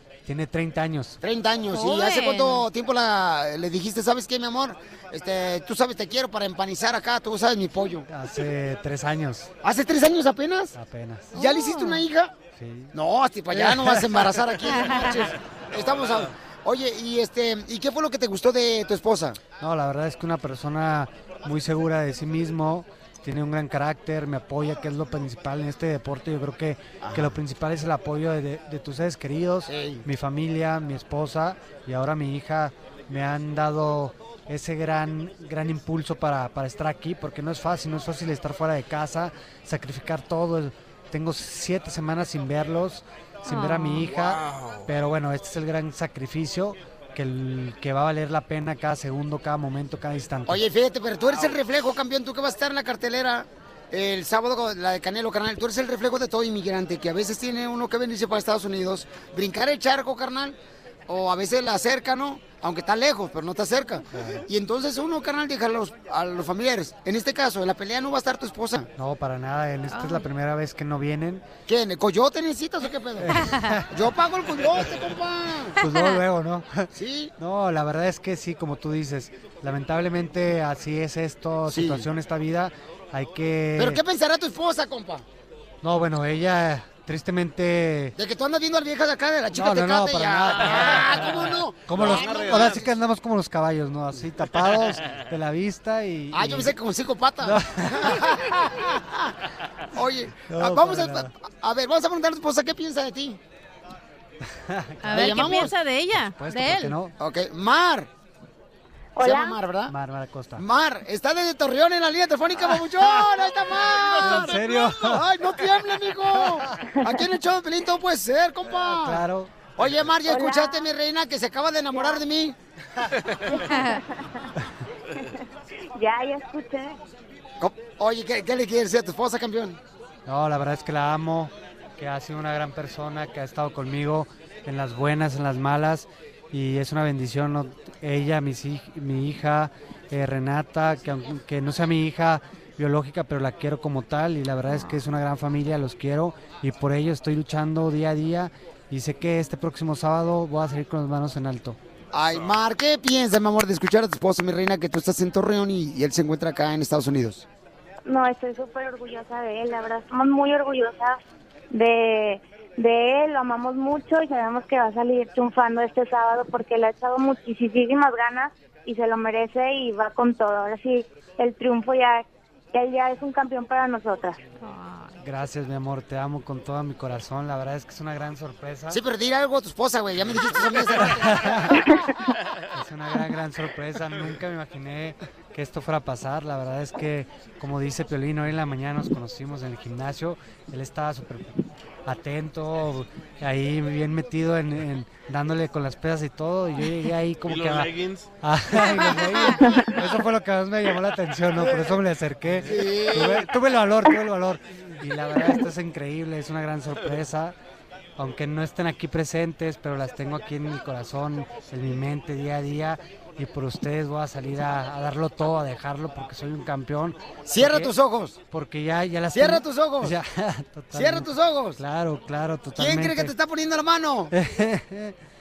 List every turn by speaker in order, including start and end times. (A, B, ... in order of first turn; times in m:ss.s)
0:00.2-0:01.2 A
0:01.2-0:08.1 B
0:01.7-0:02.7 C
0:08.1-0:09.5 A
0:09.6-0:10.8 B
0:10.8-0:11.4 A
0:11.3-0:12.1 C
0:11.3-0:12.3 B
0:12.6-0:12.9 A
0:12.9-0:19.4 B
0:13.5-0:14.5 A
0:14.7-0:15.1 C
0:15.7-0:16.3 D
0:19.6-0:50.6 A
0:27.0-0:27.4 B
0:29.7-0:30.0 B
0:43.4-0:44.1 C
0:44.0-0:44.9 D
0:50.5-1:00.6 B
0:51.3-0:51.6 D
1:01.1-1:08.9 B
1:04.1-1:04.4 A
1:09.0-1:11.4 A
1:09.9-1:10.3 C
1:11.7-1:13.4 B
1:13.2-1:13.9 A
1:13.9-1:15.8 B
1:15.8-1:24.0 A
1:15.8-1:16.2 C
1:16.9-1:17.3 B
1:21.7-1:22.1 B
1:23.8-1:25.2 B
1:25.8-1:28.2 A
1:28.2-1:32.9 B
1:29.5-1:36.7 A
1:31.9-1:33.0 D
1:36.3-1:39.3 B
1:37.4-1:38.1 A
1:39.9-1:43.4 B
1:40.5-1:41.3 A
1:44.6-1:45.6 A
1:45.0-1:47.0 C
1:45.1-1:45.7 B
1:46.4-1:47.2 A
1:47.2-1:48.1 B
1:49.2-1:49.6 E
1:49.2-1:49.9 B
1:49.9-1:50.6 A
1:50.6-1:59.2 B
1:53.7-1:54.9 D
1:54.2-1:55.2 A
1:58.7-1:59.5 A
1:59.8-2:02.6 B
2:00.3-2:00.9 E
2:01.9-2:02.2 E
2:03.5-2:04.5 E
2:03.6-2:04.0 C
2:06.0-2:07.0 E
2:07.6-2:09.8 B
2:10.3-2:31.8 A
2:32.1-2:37.4 B
2:32.2-2:32.6 D
2:38.1-2:41.2 E
2:41.7-2:54.4 E
2:54.6-2:55.1 C
2:55.2-2:59.0 A
2:58.9-3:01.7 B
3:01.0-3:01.9 A
3:02.7-3:11.5 A
3:12.1-3:17.9 A
3:17.4-3:18.3 D
3:18.4-3:27.6 A
3:22.6-3:23.5 B
3:28.2-3:37.9 A
3:37.5-3:38.4 B
3:38.5-3:43.3 A
3:39.4-3:40.2 B
3:40.9-3:41.8 B
3:42.8-3:44.3 B
3:44.3-3:45.2 A